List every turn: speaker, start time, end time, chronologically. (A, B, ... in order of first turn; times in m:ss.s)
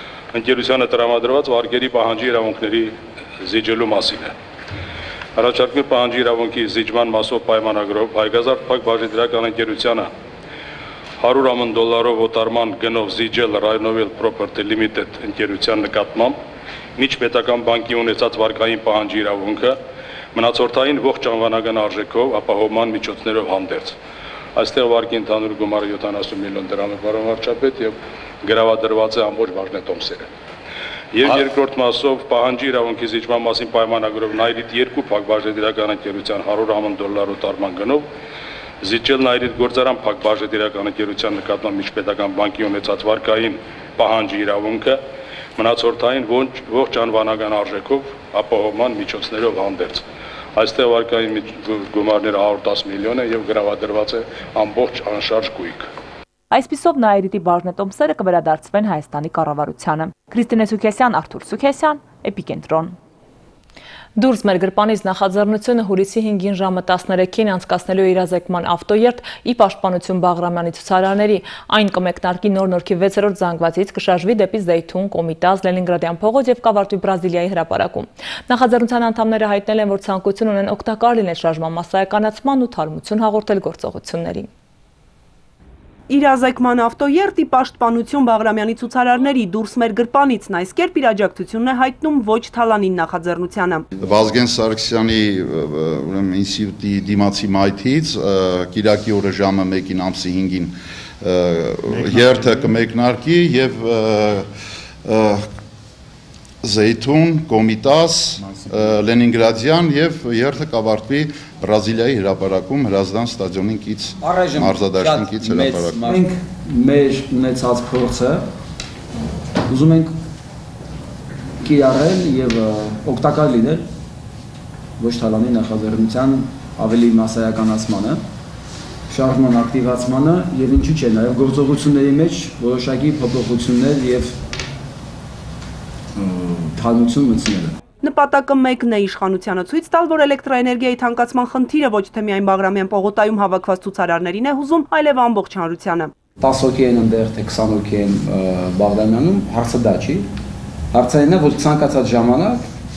0:00.3-0:04.3 A
0:05.4-0:10.1 A
0:11.2-0:16.4 A
0:17.0-0:19.8 A
0:20.3-0:24.0 A
0:24.6-0:30.3 A
0:31.1-0:38.1 A
0:38.8-0:45.0 A
0:45.6-0:50.0 A
0:50.6-0:55.8 A
0:56.5-1:03.0 B
1:04.2-1:24.5 B
1:26.1-1:33.8 C
1:34.0-1:44.4 D
1:45.0-1:45.5 D
1:46.6-1:56.2 D
1:54.2-1:58.5 E
1:59.7-2:00.1 E
2:01.6-2:03.8 E
2:05.0-2:08.2 E
2:09.1-2:14.4 E
2:16.2-2:17.8 E
2:18.0-2:26.1 C
2:26.4-2:30.3 E
2:30.9-2:32.6 E